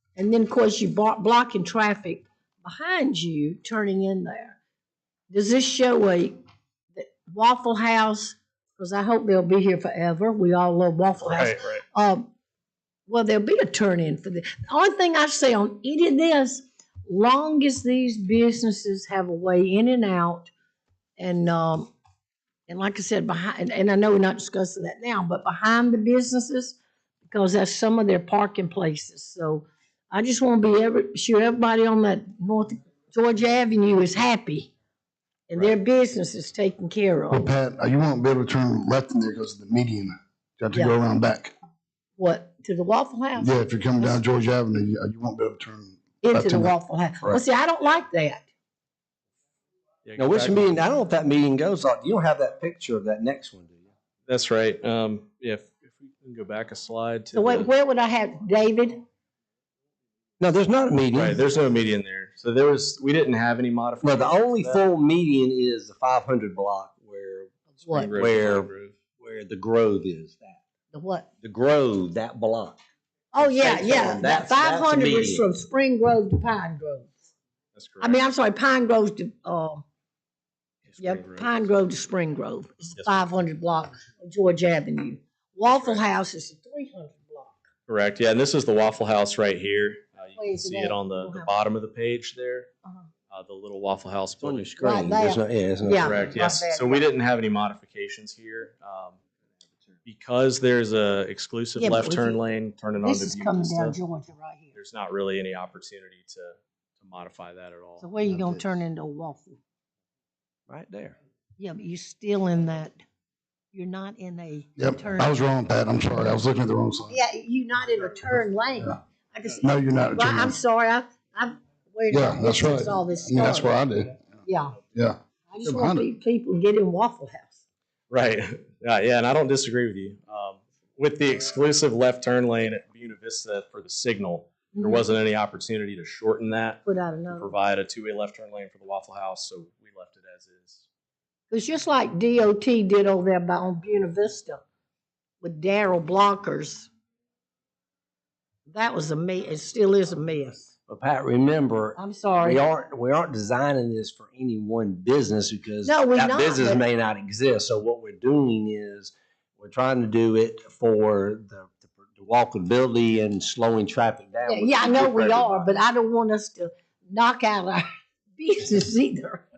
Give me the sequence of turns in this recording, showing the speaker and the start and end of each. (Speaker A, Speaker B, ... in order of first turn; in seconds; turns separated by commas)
Speaker A: 0.2-4.6, Speaker A: 5.3-6.4, Speaker A: 7.0-12.3, Speaker B: 11.3-11.8, Speaker A: 13.1-20.5, Speaker A: 21.2-21.9, Speaker A: 22.7-34.7, Speaker A: 35.5-37.5, Speaker C: 37.3-41.5, Speaker A: 42.2-44.2, Speaker C: 43.4-47.4, Speaker A: 46.2-48.5, Speaker B: 50.0-50.8, Speaker D: 50.2-53.9, Speaker B: 54.3-57.7, Speaker A: 57.3-59.0, Speaker D: 60.4-61.4, Speaker B: 61.1-64.8, Speaker D: 64.0-67.6, Speaker A: 67.8-68.1, Speaker B: 67.8-69.0, Speaker D: 68.2-70.6, Speaker A: 70.9-71.3, Speaker D: 71.4-72.8, Speaker A: 73.3-77.1, Speaker D: 73.4-75.5, Speaker B: 77.7-78.2, Speaker A: 78.0-79.8, Speaker B: 80.8-81.7, Speaker A: 81.0-87.7, Speaker B: 82.9-83.3, Speaker B: 85.7-86.0, Speaker B: 87.9-92.7, Speaker A: 90.4-91.5, Speaker B: 93.3-94.9, Speaker D: 94.4-96.3, Speaker A: 94.8-97.1, Speaker B: 95.9-99.2, Speaker B: 100.0-104.0, Speaker A: 101.8-102.4, Speaker A: 103.0-104.7, Speaker B: 104.7-108.1, Speaker A: 108.0-109.6, Speaker D: 108.3-108.6, Speaker D: 110.7-111.2, Speaker A: 111.6-113.0, Speaker A: 113.7-115.4, Speaker C: 114.8-117.2, Speaker A: 117.1-123.8, Speaker C: 119.6-120.6, Speaker C: 122.1-124.2, Speaker A: 124.5-124.8, Speaker C: 124.9-126.0, Speaker A: 125.5-127.6, Speaker B: 128.1-140.9, Speaker A: 134.7-135.1, Speaker A: 136.9-137.5, Speaker A: 141.5-144.6, Speaker A: 145.4-146.9, Speaker A: 148.7-150.7, Speaker D: 150.9-165.7, Speaker A: 152.0-152.6, Speaker A: 155.8-156.8, Speaker A: 164.5-167.8, Speaker A: 168.4-169.4